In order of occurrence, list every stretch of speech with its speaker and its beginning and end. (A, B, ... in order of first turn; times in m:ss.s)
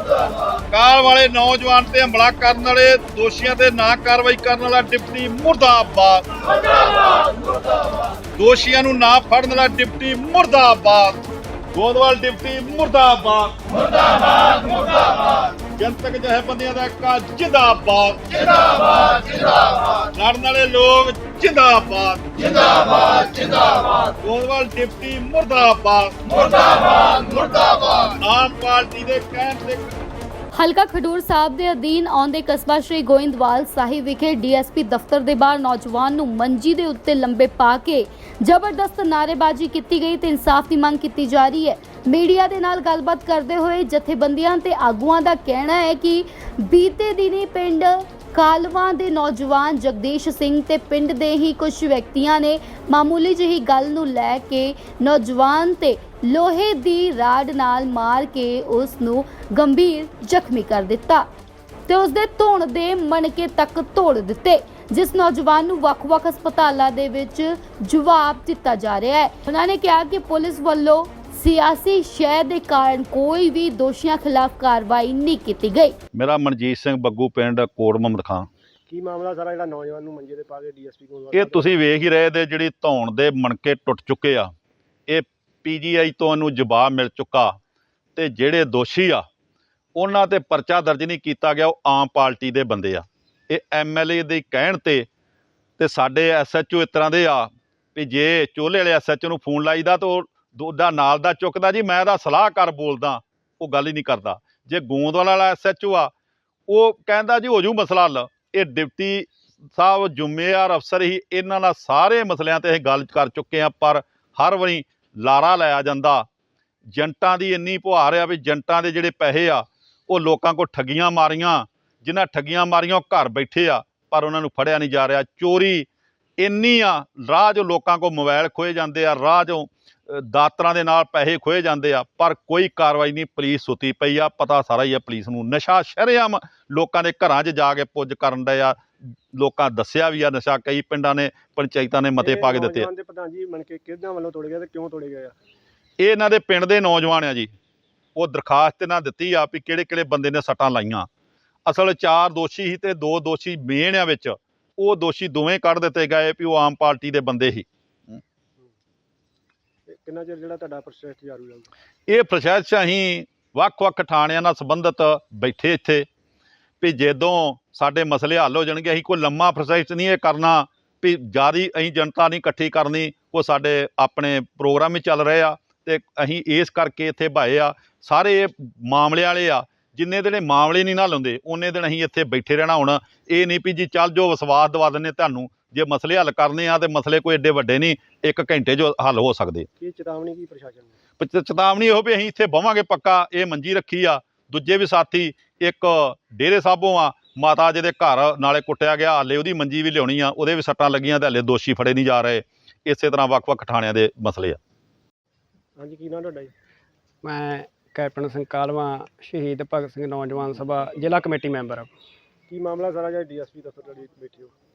0:00.7-0:06.2 A
0:08.4-0:11.2 A
0:11.7-0:13.6 A
0:14.3-0:15.1 A
0:15.8-0:23.5 A
0:24.2-0:27.4 A
0:28.0-0:29.9 A
0:30.5-1:01.3 B
1:01.9-1:16.0 B
1:16.1-1:18.5 A
1:18.9-1:21.8 C
1:21.3-1:24.5 A
1:25.1-1:27.6 A
1:28.2-1:29.2 A
1:30.0-1:35.1 A
1:35.8-1:46.1 A
1:46.7-1:56.2 A
1:56.9-2:05.9 A
2:06.4-2:18.8 A
2:19.3-2:22.9 A
2:22.2-2:25.3 C
2:26.0-2:27.5 A
2:28.2-2:31.1 A
2:31.7-2:37.7 A
2:39.9-2:41.7 C
2:42.1-2:46.0 A
2:46.8-3:09.7 A
3:09.8-3:10.9 C
3:11.2-3:24.6 A
3:25.8-3:26.5 C
3:27.2-3:31.9 D
3:32.5-3:34.5 C